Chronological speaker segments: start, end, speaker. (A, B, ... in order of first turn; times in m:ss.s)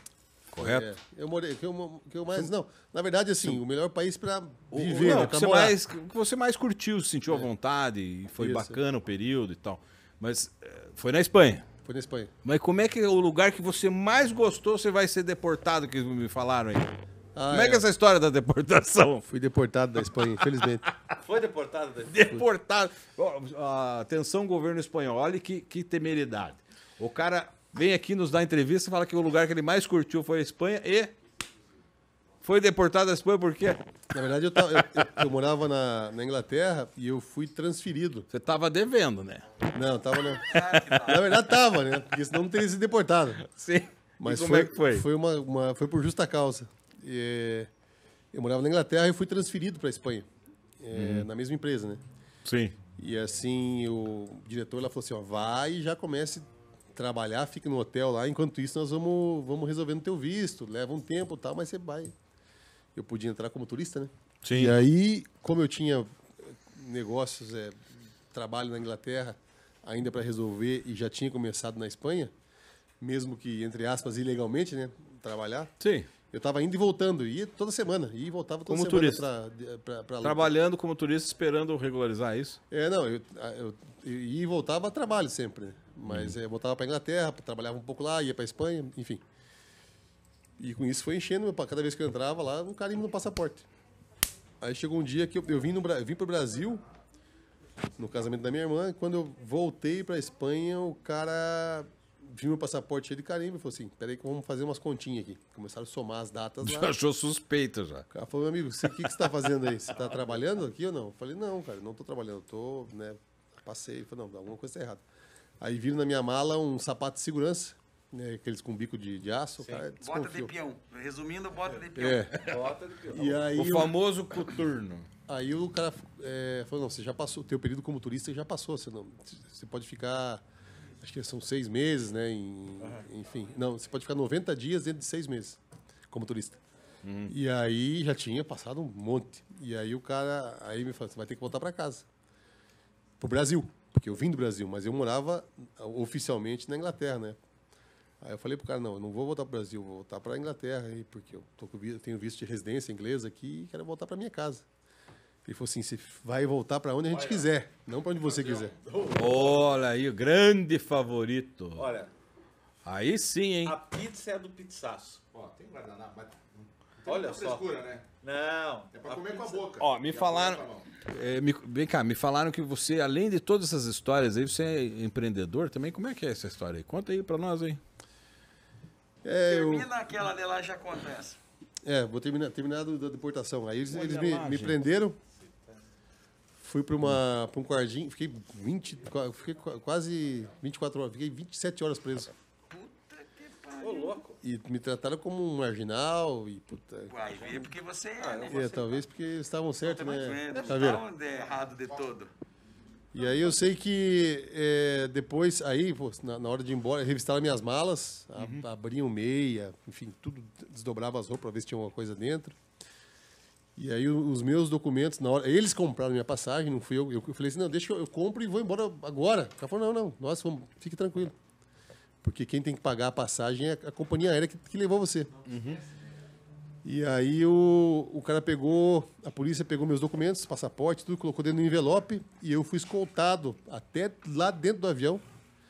0:00.5-0:00.9 A
0:00.6-0:05.8 B
0:04.7-0:11.7 A
0:05.0-0:05.3 C
0:08.4-0:08.8 B
0:11.8-0:12.3 B
0:12.4-0:17.0 A
0:17.4-0:17.8 B
0:17.5-0:19.3 A
0:19.3-0:20.8 B
0:21.2-0:22.4 C
0:22.1-0:31.1 A
0:32.4-0:33.8 A
0:34.1-0:38.3 B
0:38.3-0:39.6 A
0:39.7-0:43.4 B
0:40.4-0:41.4 D
0:43.4-0:45.0 A
0:44.2-0:47.7 B
0:48.3-0:50.3 B
0:50.8-0:52.0 B
0:50.9-0:51.3 A
0:52.4-0:52.8 A
0:53.0-1:02.1 B
1:03.0-1:07.8 B
1:04.4-1:04.8 A
1:08.3-1:12.3 B
1:13.0-1:20.5 B
1:15.8-1:16.1 A
1:18.7-1:19.3 A
1:20.2-1:22.6 A
1:22.7-1:29.2 B
1:26.1-1:26.4 A
1:30.6-1:33.7 B
1:34.6-1:36.8 B
1:38.0-1:46.9 B
1:46.6-1:48.1 A
1:48.1-1:55.0 B
1:48.9-1:49.2 A
1:55.6-2:00.5 B
2:00.0-2:02.3 D
2:02.0-2:02.4 B
2:02.4-2:03.5 C
2:03.1-2:04.0 B
2:03.6-2:05.1 A
2:05.3-2:10.4 B
2:11.0-2:15.6 B
2:12.8-2:13.1 C
2:16.1-2:16.6 B
2:17.0-2:17.3 A
2:17.3-2:22.1 B
2:23.2-2:27.4 B
2:28.2-2:34.6 B
2:35.4-2:38.7 B
2:38.4-2:39.8 C
2:39.1-2:41.9 A
2:41.8-2:42.1 C
2:42.8-2:43.8 A
2:43.6-2:45.2 C
2:45.3-2:48.0 E
2:47.0-2:47.7 C
2:48.2-2:49.6 C
2:48.9-2:50.9 E
2:49.8-2:57.8 A
2:59.2-2:59.9 B
2:59.5-3:01.4 D
3:01.8-3:05.2 B
3:03.9-3:04.8 A
3:05.4-3:05.7 C
3:06.6-3:12.3 B
3:12.7-3:14.2 D
3:13.8-3:14.4 C
3:14.4-3:17.6 B
3:17.1-3:18.7 D
3:18.2-3:19.0 C
3:18.5-3:21.0 B
3:19.8-3:22.3 D
3:20.5-3:21.0 C
3:23.1-3:32.6 B
3:28.4-3:28.6 A
3:33.8-3:41.3 B
3:42.2-3:45.3 B
3:45.4-3:45.8 A
3:45.4-3:45.9 C
3:46.8-3:55.2 B